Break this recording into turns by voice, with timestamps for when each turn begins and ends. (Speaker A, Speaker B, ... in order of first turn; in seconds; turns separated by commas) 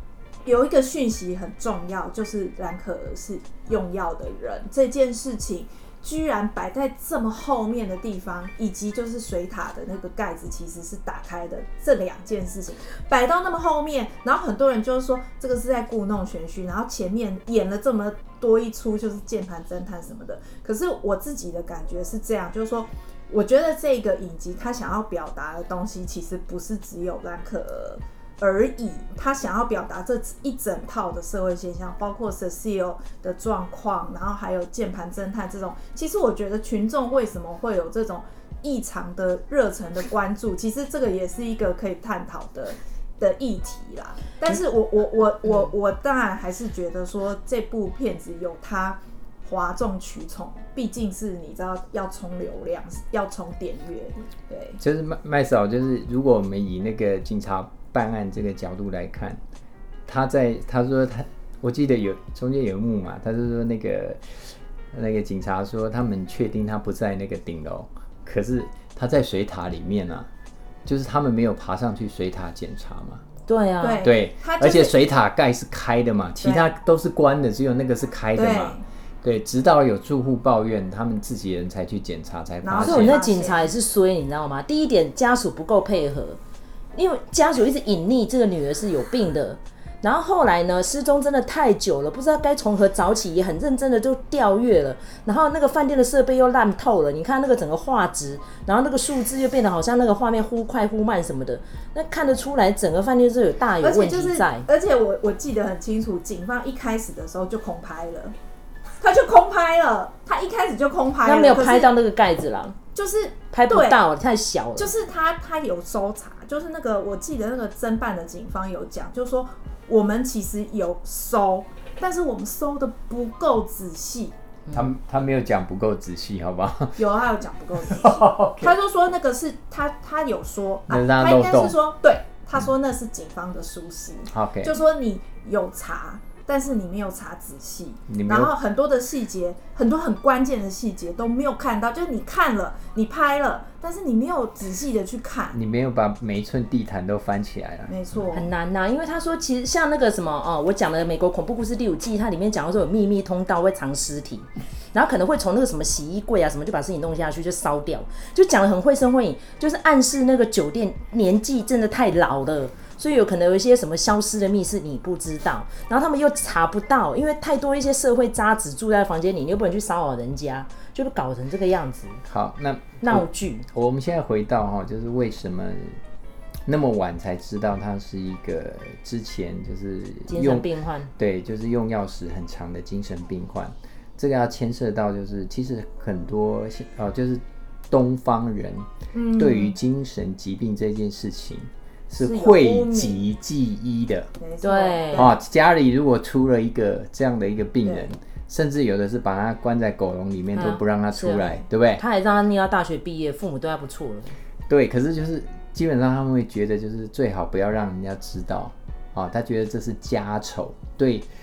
Speaker A: 0.4-54.8, Speaker B: 54.8-59.4, Speaker B: 60.0-70.3, Speaker B: 70.8-73.2, Speaker C: 73.5-74.1, Speaker A: 73.8-74.9, Speaker B: 74.0-83.2, Speaker A: 76.4-76.7, Speaker A: 78.3-78.8, Speaker A: 82.6-83.7, Speaker C: 82.8-86.4, Speaker C: 86.9-104.7, Speaker A: 103.8-108.3, Speaker A: 109.0-111.9, Speaker C: 111.2-112.8, Speaker A: 112.9-114.0, Speaker C: 113.5-114.9, Speaker A: 114.8-124.3, Speaker B: 124.7-127.0, Speaker A: 127.0-145.6, Speaker B: 127.8-128.8, Speaker B: 130.9-131.8, Speaker B: 134.3-134.7, Speaker B: 138.1-138.5, Speaker B: 145.5-147.9, Speaker A: 147.9-148.5, Speaker C: 148.3-172.2, Speaker B: 172.2-176.0, Speaker C: 173.0-173.7, Speaker B: 176.7-194.3, Speaker C: 180.3-181.1, Speaker A: 189.1-189.8, Speaker A: 192.2-193.2, Speaker A: 194.4-195.3, Speaker C: 194.6-195.3, Speaker B: 195.1-202.0, Speaker C: 200.5-204.3, Speaker B: 204.7-211.3